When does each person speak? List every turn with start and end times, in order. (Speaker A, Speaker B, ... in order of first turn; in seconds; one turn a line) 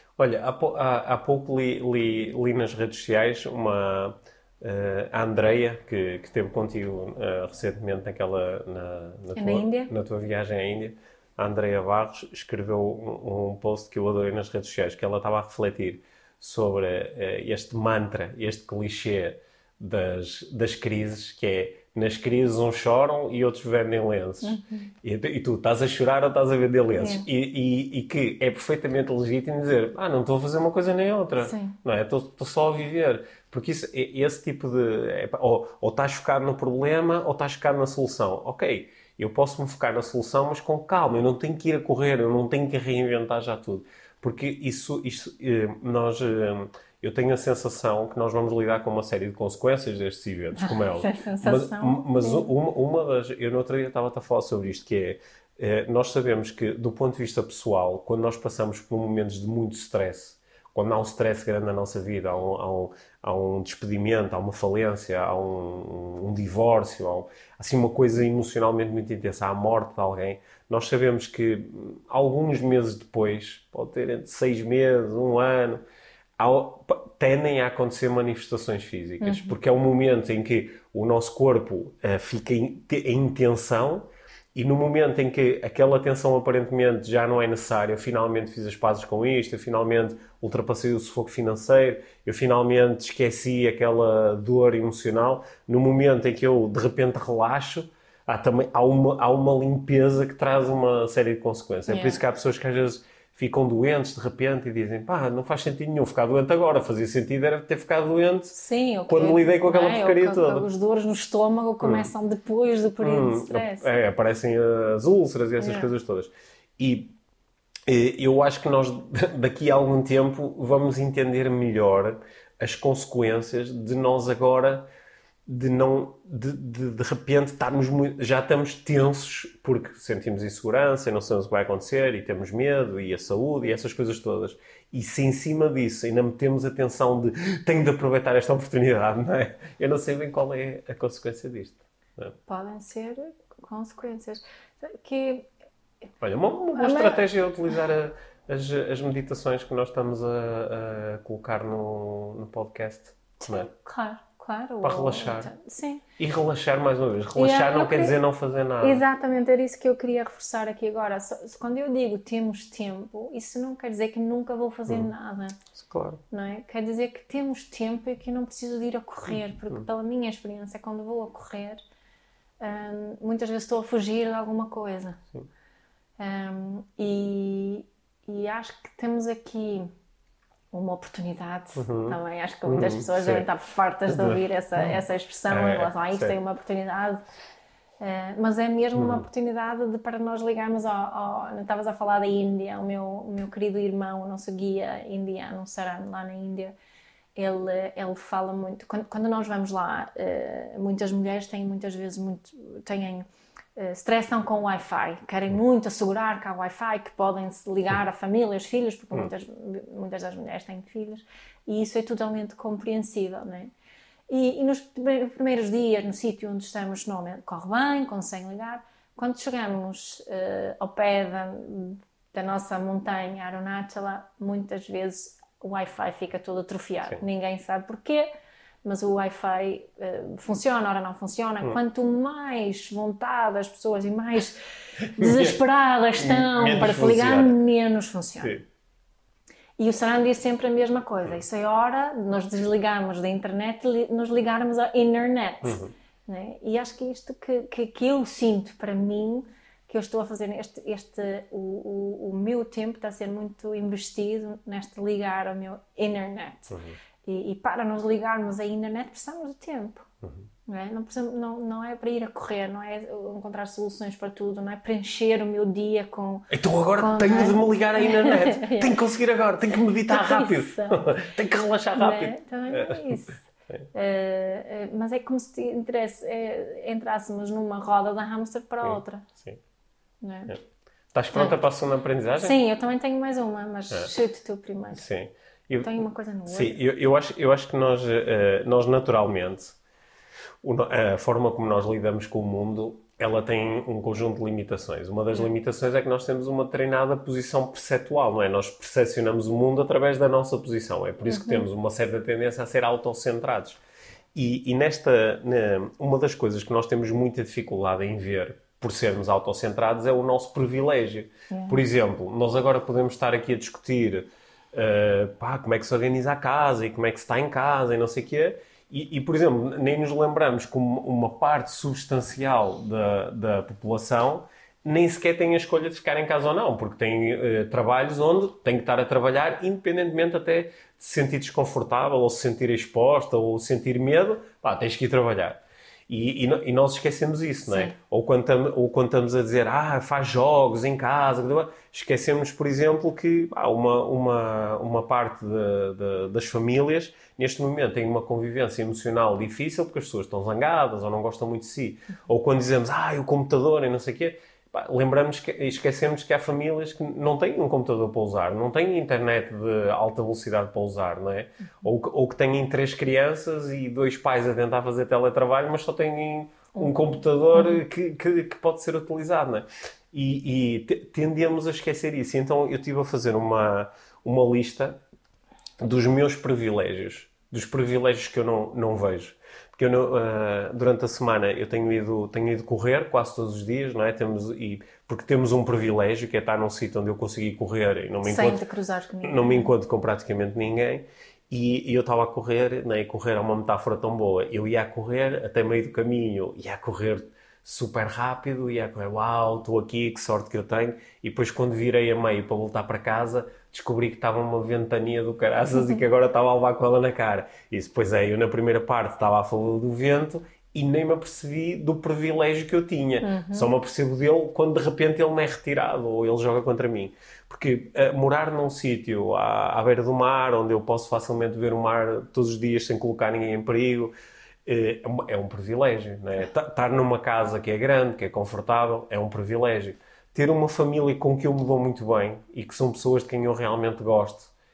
Speaker A: 0.2-75.8
Speaker B: 9.3-9.9
Speaker B: 24.4-24.9
Speaker B: 27.0-27.3
Speaker B: 31.4-31.8
Speaker B: 50.6-52.5
Speaker A: 76.4-110.7
Speaker B: 79.2-79.6
Speaker B: 101.9-102.2
Speaker B: 108.5-113.9
Speaker A: 111.8-112.1
Speaker A: 113.0-117.1
Speaker B: 115.6-115.9
Speaker A: 117.9-124.8
Speaker A: 125.5-142.4
Speaker B: 142.5-145.5
Speaker A: 146.2-153.7
Speaker B: 146.8-147.2
Speaker B: 153.4-156.0
Speaker A: 154.8-155.5
Speaker A: 156.2-159.0
Speaker B: 157.4-158.2
Speaker B: 158.8-165.6
Speaker A: 165.7-166.2
Speaker B: 166.3-171.8
Speaker A: 169.3-169.8
Speaker B: 172.6-175.2
Speaker B: 176.2-179.9
Speaker B: 180.7-187.2
Speaker A: 181.8-183.5
Speaker A: 184.1-186.4
Speaker B: 188.0-196.7
Speaker A: 188.9-189.2
Speaker B: 197.3-213.7
Speaker B: 214.3-228.3
Speaker B: 228.8-234.6
Speaker A: 235.0-235.6
Speaker B: 235.1-238.5
Speaker A: 236.1-237.6
Speaker B: 239.8-260.1
Speaker A: 245.6-245.9
Speaker A: 256.7-257.0
Speaker A: 260.2-260.5
Speaker B: 260.6-269.0
Speaker A: 266.5-273.9
Speaker B: 269.7-271.0
Speaker B: 271.9-279.3
Speaker A: 278.8-279.6
Speaker B: 280.2-280.5
Speaker A: 281.1-282.6
Speaker B: 282.4-285.0
Speaker A: 284.9-289.8
Speaker B: 285.8-286.8
Speaker A: 290.6-303.8
Speaker B: 301.3-301.6
Speaker A: 304.4-375.0
Speaker B: 311.5-311.8
Speaker B: 337.7-337.9
Speaker B: 367.5-367.8
Speaker A: 375.8-388.6
Speaker B: 388.2-389.7
Speaker A: 389.2-424.1
Speaker B: 413.2-413.7
Speaker A: 424.6-434.5